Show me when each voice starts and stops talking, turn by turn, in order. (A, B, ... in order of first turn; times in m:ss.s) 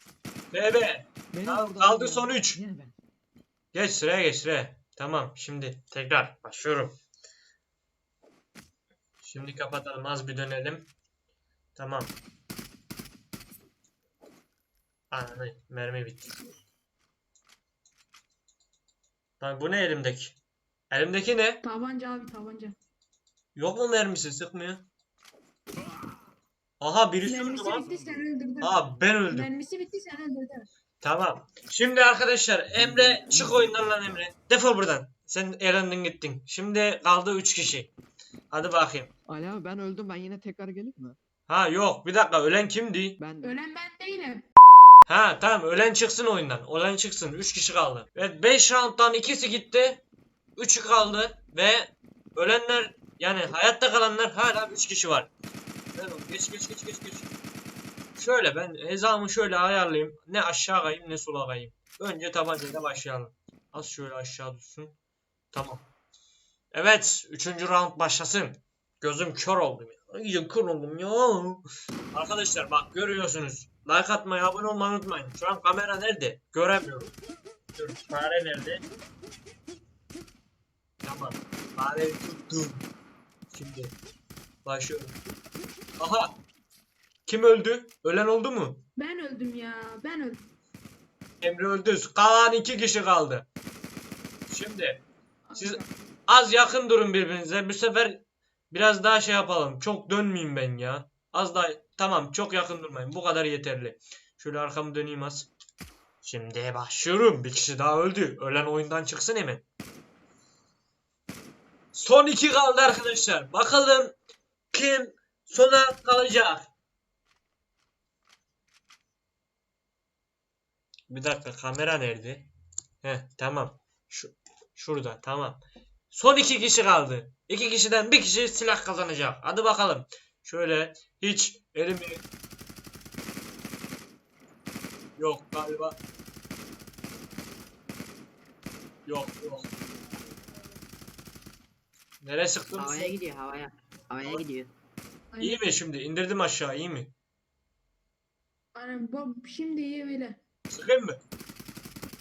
0:00.5-0:02.6 A
0:01.3-0:02.9 B
0:03.7-0:06.9 A
0:09.2-0:10.9 A
0:11.8-0:12.2 A
0:15.1-0:16.3 A
0:19.4-0:20.4 A
0:20.9-0:21.6 A
0:21.6-0:22.8 C
0:23.6-0:24.8 A
0:26.8-0:27.9 A
0:27.2-0:30.7 C
0:28.6-0:29.5 A
0:31.0-0:37.9 A
0:38.5-0:39.1 A
0:39.3-0:41.2 B
0:41.5-0:43.2 A
0:43.2-0:43.6 B
0:43.4-0:44.4 C
0:45.1-0:50.0 A
0:50.6-0:55.3 A
0:55.9-0:57.3 A
0:58.2-1:04.9 A
1:05.5-1:05.8 A
1:06.7-1:17.1 A
1:17.7-1:18.8 A
1:21.0-1:22.8 A
1:23.5-1:23.9 A
1:24.6-1:25.2 A
1:26.0-1:26.4 A
1:27.2-1:28.8 A
1:29.0-1:30.5 C
1:31.4-1:33.4 A
1:34.5-1:35.0 A
1:35.5-1:35.9 C
1:35.6-1:45.5 A
1:46.2-1:49.6 A
1:51.9-1:54.1 A
1:54.7-1:56.7 A
2:01.1-2:02.5 A
2:03.0-2:12.2 A
2:15.2-2:16.0 A
2:19.0-2:19.7 A
2:22.2-2:23.2 A
2:22.8-2:24.7 D
2:25.3-2:25.6 C
2:25.4-2:27.1 A
2:28.7-2:30.4 C
2:30.7-2:31.2 A